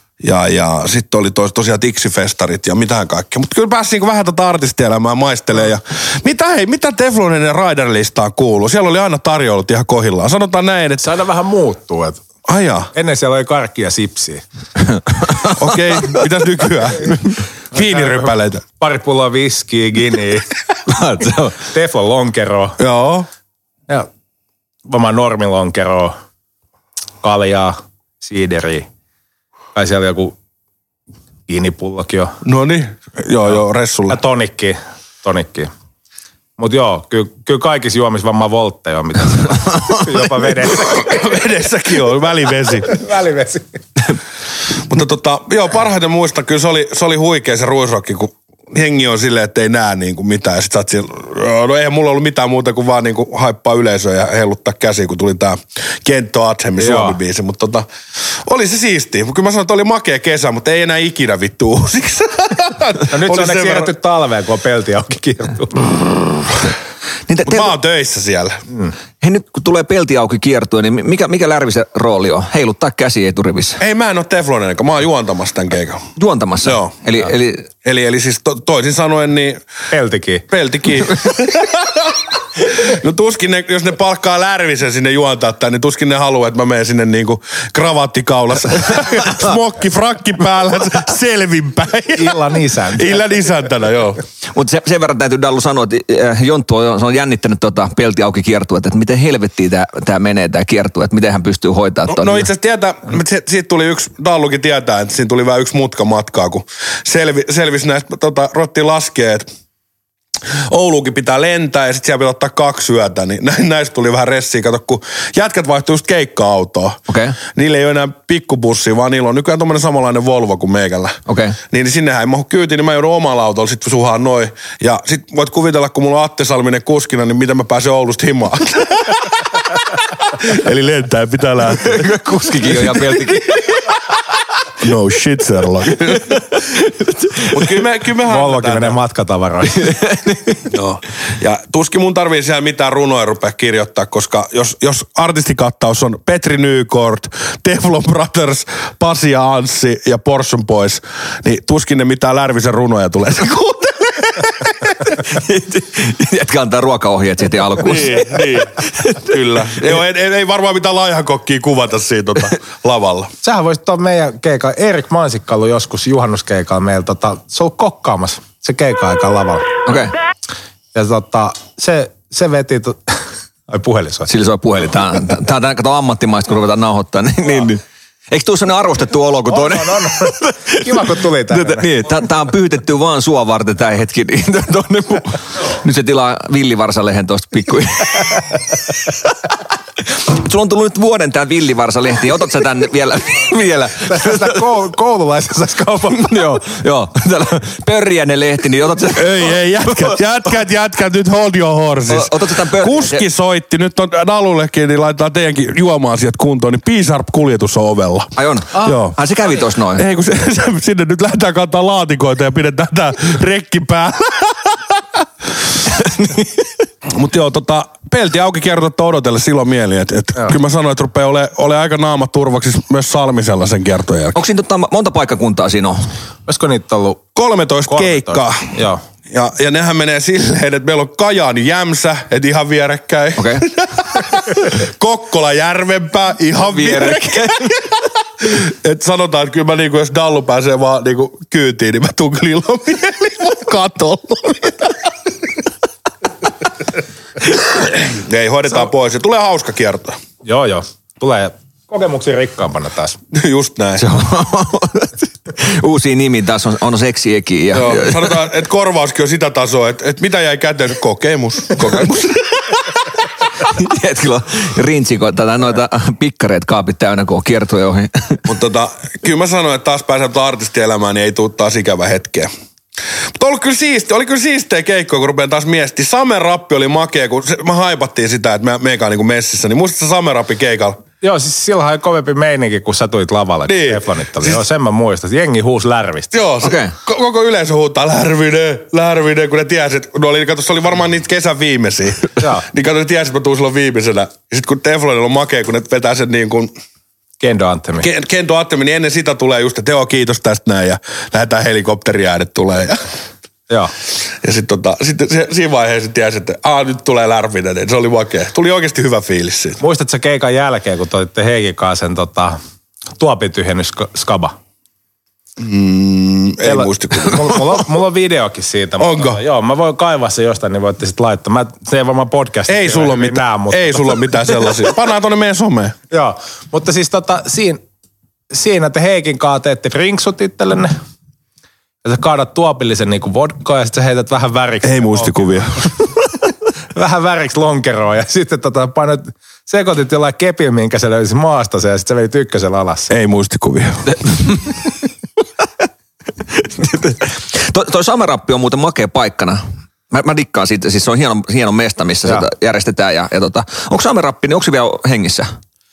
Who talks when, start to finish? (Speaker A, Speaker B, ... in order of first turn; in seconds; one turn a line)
Speaker A: 0.2-11.1
Speaker B: 11.0-12.2
Speaker A: 12.5-12.9
Speaker B: 12.9-14.4
Speaker A: 15.4-18.6
Speaker B: 17.7-20.5
Speaker C: 20.9-21.6
Speaker B: 21.6-22.8
Speaker A: 22.8-23.3
Speaker B: 24.9-26.1
Speaker B: 27.2-28.9
Speaker B: 29.7-30.3
Speaker B: 31.5-32.3
Speaker A: 32.4-34.2
Speaker B: 34.1-35.7
Speaker B: 36.6-41.4
Speaker A: 40.7-43.0
Speaker B: 42.8-43.8
Speaker A: 44.9-63.9
Speaker B: 56.8-57.2
Speaker B: 63.1-65.9
Speaker C: 67.3-67.8
Speaker A: 67.4-68.6
Speaker C: 69.2-73.8
Speaker A: 73.8-76.1
Speaker C: 76.2-77.7
Speaker A: 76.6-77.0
Speaker A: 77.8-79.6
Speaker B: 79.9-80.5
Speaker A: 80.5-94.2
Speaker B: 92.2-93.1
Speaker C: 94.5-102.5
Speaker A: 102.1-109.5
Speaker A: 110.7-129.6
Speaker C: 117.1-117.4
Speaker C: 121.3-121.6
Speaker A: 130.3-132.1
Speaker C: 131.8-133.7
Speaker A: 132.7-133.1
Speaker A: 134.8-136.4
Speaker C: 136.2-137.4
Speaker A: 137.5-139.0
Speaker B: 138.2-139.9
Speaker C: 139.7-140.6
Speaker A: 140.7-154.7
Speaker C: 155.1-159.2
Speaker A: 157.8-163.3
Speaker B: 163.4-169.7
Speaker C: 169.8-170.1
Speaker B: 170.9-174.3
Speaker C: 174.3-188.4
Speaker B: 179.5-182.1
Speaker C: 190.1-194.7
Speaker B: 194.0-196.6
Speaker C: 196.1-200.0
Speaker A: 199.1-209.2
Speaker C: 202.1-203.2
Speaker C: 208.3-210.0
Speaker A: 209.9-215.2
Speaker C: 216.1-216.4
Speaker A: 217.1-224.3
Speaker C: 224.3-226.0
Speaker B: 226.4-227.3
Speaker A: 227.3-228.7
Speaker B: 227.9-229.0
Speaker A: 229.3-237.8
Speaker C: 233.3-233.7
Speaker C: 236.7-237.8
Speaker A: 238.4-245.1
Speaker A: 247.5-250.2
Speaker B: 250.4-253.2
Speaker A: 253.3-254.1
Speaker C: 254.0-258.4
Speaker A: 257.7-262.8
Speaker C: 263.6-268.4
Speaker A: 268.4-272.5
Speaker A: 273.4-281.0
Speaker B: 281.2-286.3
Speaker A: 283.7-284.5
Speaker A: 286.3-296.7
Speaker C: 286.6-286.9
Speaker B: 292.4-292.6
Speaker B: 297.4-298.1
Speaker A: 298.0-303.0
Speaker A: 304.4-309.8
Speaker B: 309.8-312.6
Speaker B: 313.2-314.5
Speaker A: 315.6-317.8
Speaker B: 316.6-324.6
Speaker A: 319.0-319.4
Speaker A: 322.7-325.9
Speaker B: 326.1-327.8
Speaker B: 328.5-330.9
Speaker B: 332.0-335.9
Speaker A: 334.8-335.9
Speaker B: 336.9-343.1
Speaker A: 343.1-344.1
Speaker C: 346.5-355.5